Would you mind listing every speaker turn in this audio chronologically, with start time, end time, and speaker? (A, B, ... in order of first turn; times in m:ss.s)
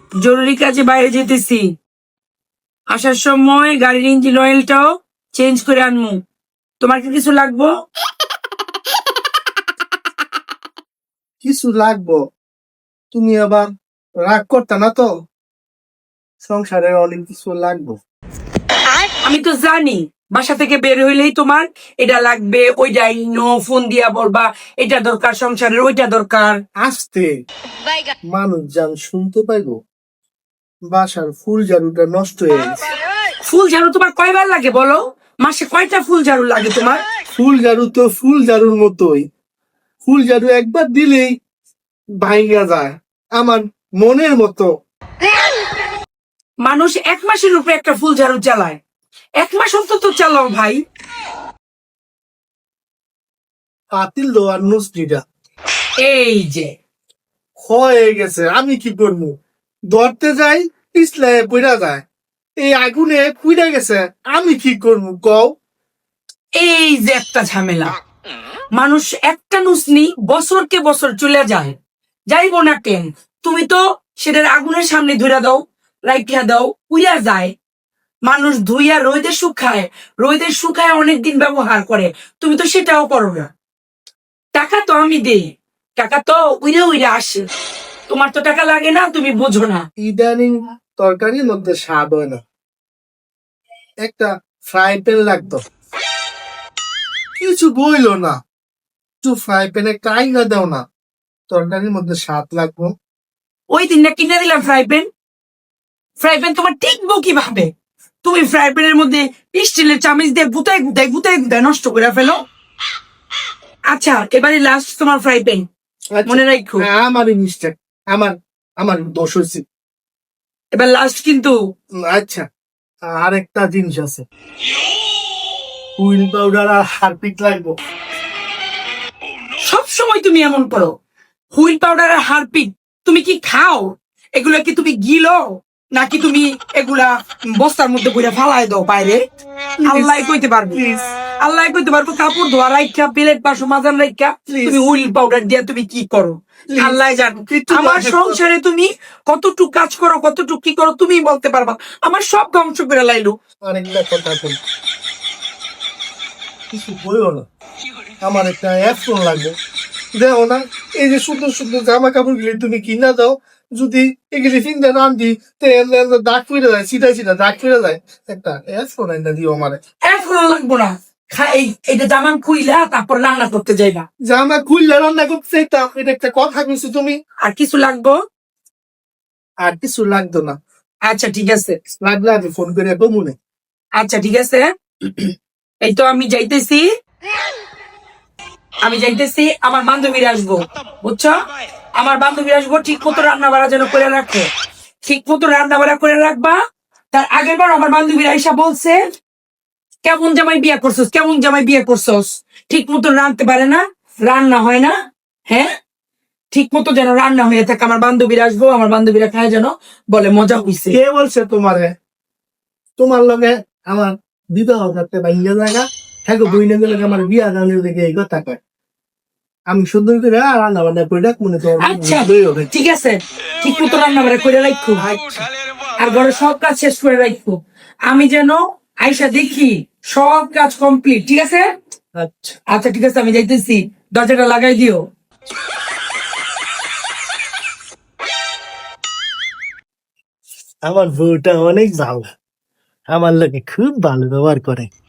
0:00.2-0:01.7 A
0:02.9-0:06.2 A
0:06.8-0:07.7 A
0:11.4-0:12.2 B
0:13.1-0:13.7 B
0:14.2-0:15.1 B
0:16.4-0:18.0 B
0:19.2-0:26.6 A
0:26.8-0:27.3 B
0:28.3-0:29.8 B
0:30.9-0:32.8 B
0:33.4-0:37.0 A
0:37.4-0:39.2 B
0:40.0-0:41.3 B
0:42.2-0:44.7 B
0:46.6-0:48.8 A
0:49.4-0:50.8 A
0:53.9-0:55.2 B
0:56.0-0:56.7 A
0:57.6-0:59.3 B
0:59.9-1:02.0 B
1:02.6-1:05.5 B
1:06.6-1:07.9 A
1:08.7-1:11.7 A
1:12.3-1:17.5 A
1:18.2-1:23.5 A
1:24.5-1:25.4 A
1:26.0-1:27.4 A
1:28.1-1:29.8 A
1:30.0-1:32.4 B
1:34.0-1:35.6 B
1:37.4-1:38.4 B
1:39.2-1:40.8 B
1:41.5-1:42.9 B
1:43.7-1:45.1 A
1:46.2-1:47.7 A
1:48.2-1:52.4 A
1:53.9-1:55.6 A
1:56.1-1:59.6 B
1:56.2-1:56.9 A
2:00.7-2:01.6 A
2:02.0-2:02.4 B
2:03.1-2:04.2 B
2:06.0-2:07.8 B
2:09.6-2:10.9 A
2:11.5-2:19.2 A
2:19.8-2:21.0 B
2:19.8-2:20.8 A
2:21.4-2:33.4 A
2:24.5-2:24.9 B
2:26.7-2:28.4 B
2:33.6-2:34.6 B
2:36.7-2:37.4 B
2:38.2-2:39.5 B
2:40.1-2:49.8 B
2:50.0-2:54.0 A
2:54.2-2:57.1 B
2:57.4-2:58.2 A
2:59.6-3:00.6 B
3:01.1-3:01.8 A
3:02.0-3:03.4 B
3:04.0-3:05.3 A
3:05.8-3:06.9 A
3:08.8-3:11.3 A
3:12.0-3:14.5 A
3:15.0-3:16.6 A
3:17.1-3:19.0 A
3:20.0-3:24.9 A
3:25.5-3:25.7 A
3:26.5-3:31.0 A
3:30.9-3:31.9 B
3:33.0-3:38.6 B
3:39.7-3:42.7 B
3:41.8-3:45.0 A
3:45.0-3:45.4 B
3:46.0-3:51.7 A
3:52.2-3:52.6 B
3:52.7-3:55.0 A
4:00.9-4:02.2 B
4:03.1-4:04.9 B